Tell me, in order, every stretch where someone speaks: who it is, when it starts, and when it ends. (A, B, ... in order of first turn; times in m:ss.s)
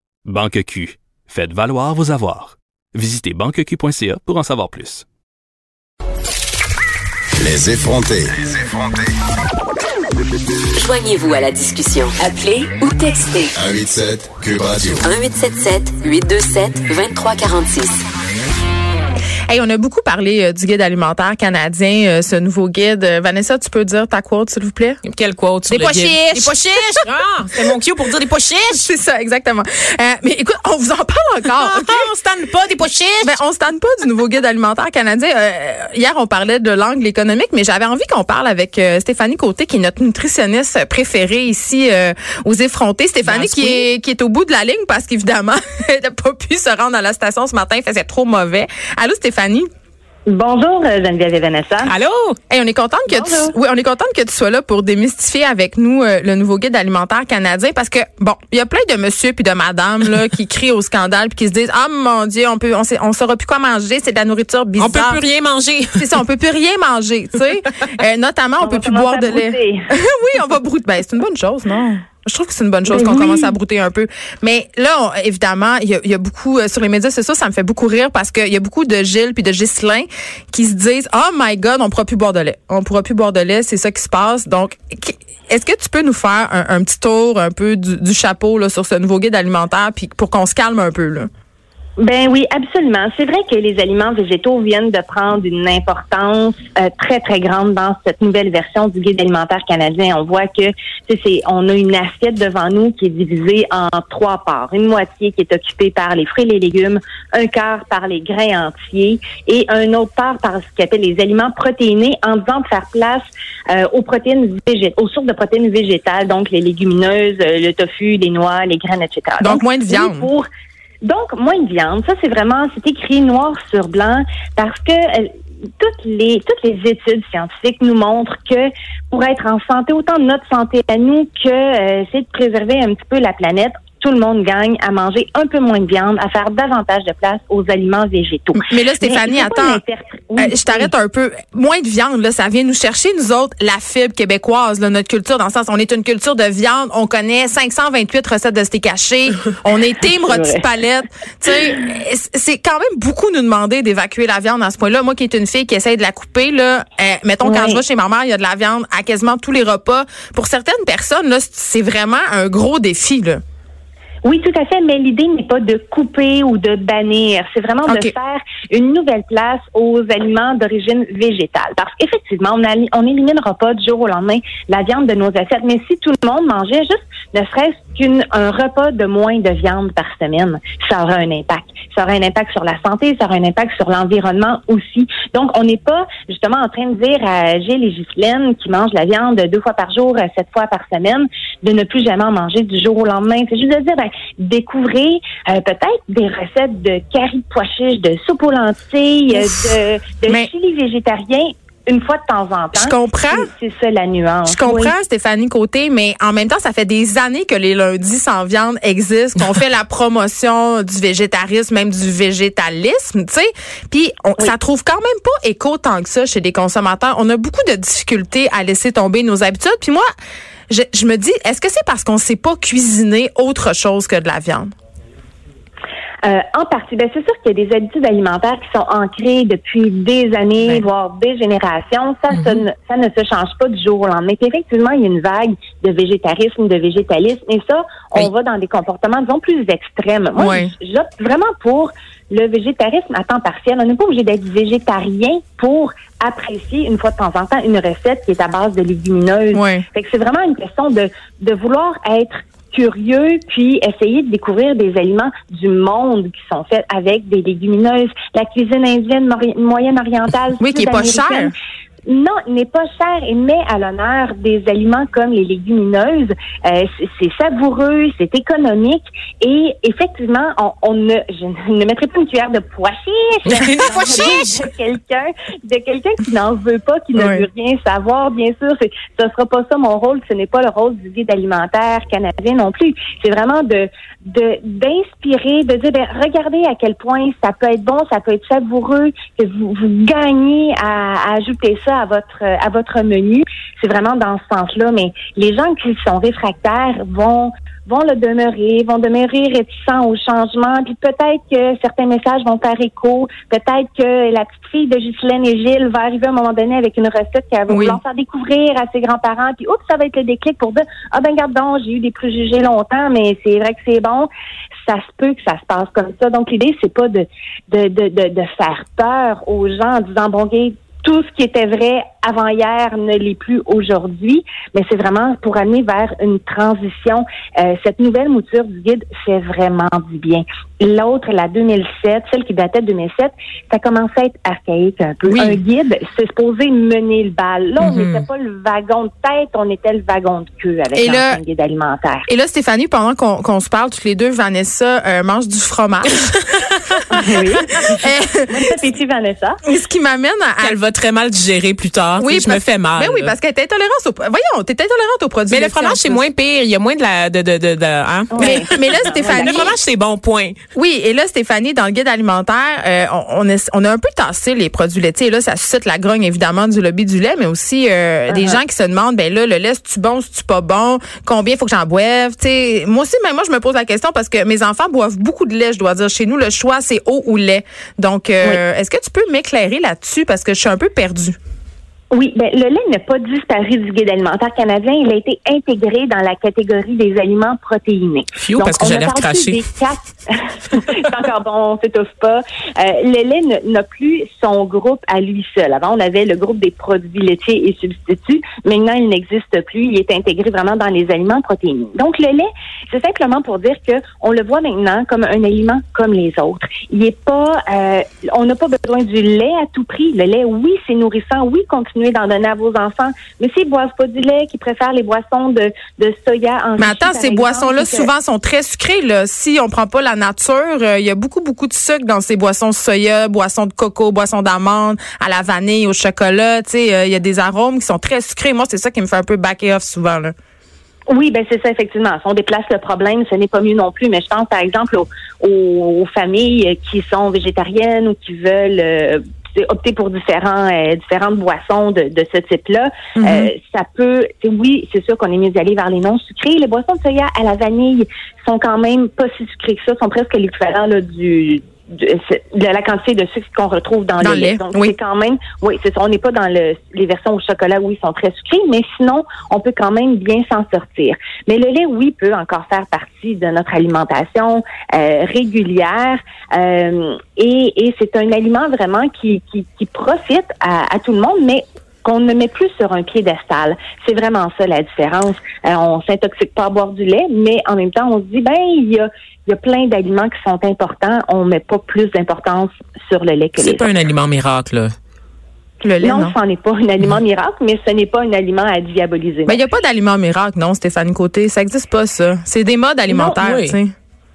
0:00.2-0:05.0 A
0:07.4-0:09.0 B
0:10.7-0:13.5 C
0:13.5-0:15.1 B
0:15.0-0:18.0 C
0:19.5-0:25.0 D
0:25.0-0:28.9 E
0:25.7-0:27.6 D
0:28.8-0:32.1 D
0:31.5-0:33.4 E
0:33.2-0:49.7 D
0:43.2-0:43.9 E
0:50.3-0:51.9 F
0:51.9-0:52.4 E
0:52.5-1:05.2 D
0:53.1-0:53.5 F
1:04.8-1:06.2 E
1:06.0-1:31.3 D
1:08.6-1:09.9 F
1:12.8-1:13.5 F
1:32.0-2:00.5 F
1:59.4-2:00.3 D
2:01.0-2:20.9 F
2:18.5-2:19.8 D
2:20.4-2:43.4 D
2:30.2-2:30.7 F
2:37.4-2:37.8 F
2:44.2-3:24.9 F
3:22.7-3:23.5 D
3:24.4-3:40.0 D
3:40.7-3:44.7 D
3:46.2-4:21.5 F
4:00.4-4:00.7 D
4:09.5-4:09.8 D
4:20.6-4:21.5 D
4:22.1-5:14.3 F
4:33.5-4:34.6 E
4:37.2-4:37.4 D
5:07.7-5:08.0 D
5:14.8-5:42.3 F
5:35.2-5:35.6 D
5:37.9-5:38.2 E
5:40.9-5:41.4 D
5:42.3-5:46.4 D
5:47.1-5:49.6 F
5:47.3-5:48.4 D
5:49.6-5:50.7 D
5:50.6-5:53.3 E
5:52.2-5:56.2 D
5:55.5-6:00.6 E
5:58.3-5:59.7 F
5:58.4-5:59.7 D
6:00.7-6:21.4 D
6:08.3-6:08.6 F
6:22.1-6:58.1 F
6:28.4-6:29.6 E
6:56.8-7:10.3 D
7:11.1-8:03.9 F
7:23.2-7:23.5 D
7:34.2-7:34.9 D
8:03.6-8:04.9 E
8:05.8-8:06.4 D
8:06.0-8:09.6 F
8:09.4-8:13.9 D
8:13.1-8:13.4 F
8:13.4-8:13.8 E